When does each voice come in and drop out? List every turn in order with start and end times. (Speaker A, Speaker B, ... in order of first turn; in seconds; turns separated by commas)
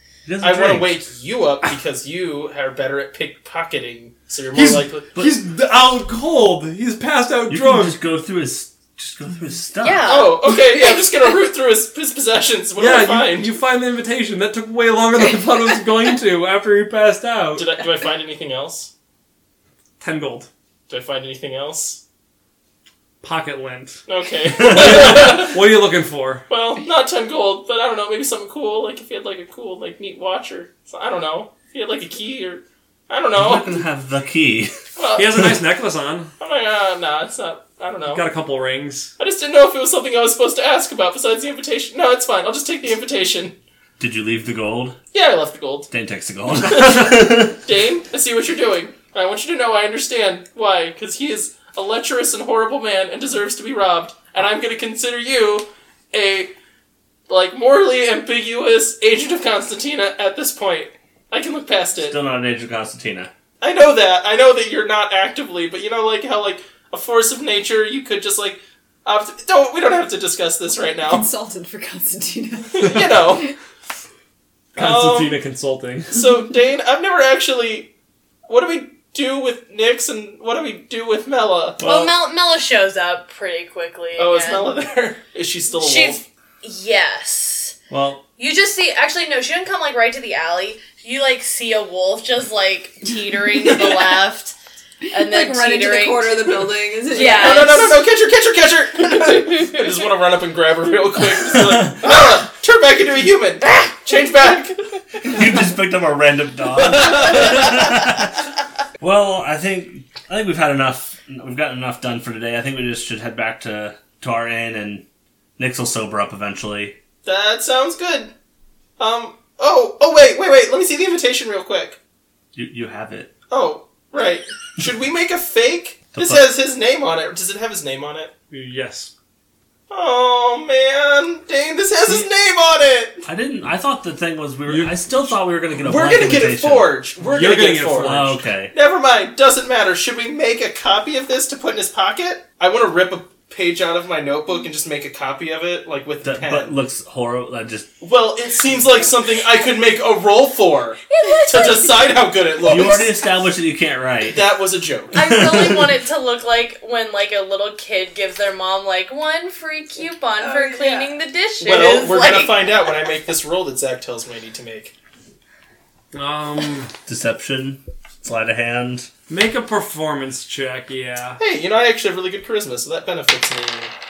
Speaker A: 0.3-1.0, Speaker B: 0.4-5.1, Speaker C: 4.5-8.0, Speaker A: 7.5-10.1, Speaker D: 9.8-11.0, Speaker B: 10.1-13.5, Speaker C: 12.8-17.7, Speaker B: 17.6-18.9, Speaker C: 20.0-20.5, Speaker B: 20.9-22.0, Speaker C: 23.2-24.0, Speaker B: 24.1-25.6, Speaker C: 24.6-26.4, Speaker B: 26.5-33.8, Speaker A: 33.4-34.7, Speaker B: 35.0-35.5, Speaker C: 35.2-36.3, Speaker B: 36.4-38.2, Speaker C: 38.1-39.1, Speaker B: 39.2-43.5, Speaker A: 44.0-45.0, Speaker B: 45.1-45.9, Speaker A: 45.9-47.6, Speaker B: 46.6-56.5, Speaker B: 57.3-62.2, Speaker A: 62.0-63.3, Speaker B: 63.6-71.3, Speaker E: 71.0-73.5, Speaker B: 72.7-73.5, Speaker C: 74.7-76.2, Speaker B: 74.8-75.4, Speaker B: 76.1-77.9, Speaker B: 78.5-81.8, Speaker A: 81.8-82.1, Speaker D: 81.8-84.8, Speaker B: 84.2-86.2, Speaker D: 85.8-87.8, Speaker A: 87.9-88.2, Speaker D: 88.4-94.5, Speaker D: 95.1-96.5, Speaker E: 95.1-98.0, Speaker D: 97.1-98.0, Speaker B: 97.3-105.3, Speaker A: 101.5-101.9, Speaker A: 105.2-108.4, Speaker B: 106.7-108.0, Speaker A: 109.0-115.0, Speaker A: 115.6-117.0, Speaker B: 117.2-118.3, Speaker B: 119.0-122.0, Speaker A: 122.5-123.3, Speaker B: 123.5-128.3, Speaker A: 126.2-126.5, Speaker C: 128.5-129.1, Speaker B: 129.9-133.2, Speaker A: 133.3-136.9, Speaker C: 134.7-135.3, Speaker B: 135.8-146.7, Speaker C: 137.2-138.4, Speaker A: 138.0-138.7, Speaker A: 146.2-147.9, Speaker B: 148.0-153.2, Speaker D: 151.1-152.0, Speaker A: 152.6-154.5, Speaker B: 154.3-155.2, Speaker A: 155.1-155.9, Speaker D: 155.1-162.9, Speaker E: 160.4-161.1, Speaker B: 161.6-164.9, Speaker C: 166.1-166.9, Speaker A: 167.1-169.1, Speaker C: 169.3-171.4, Speaker B: 171.4-173.9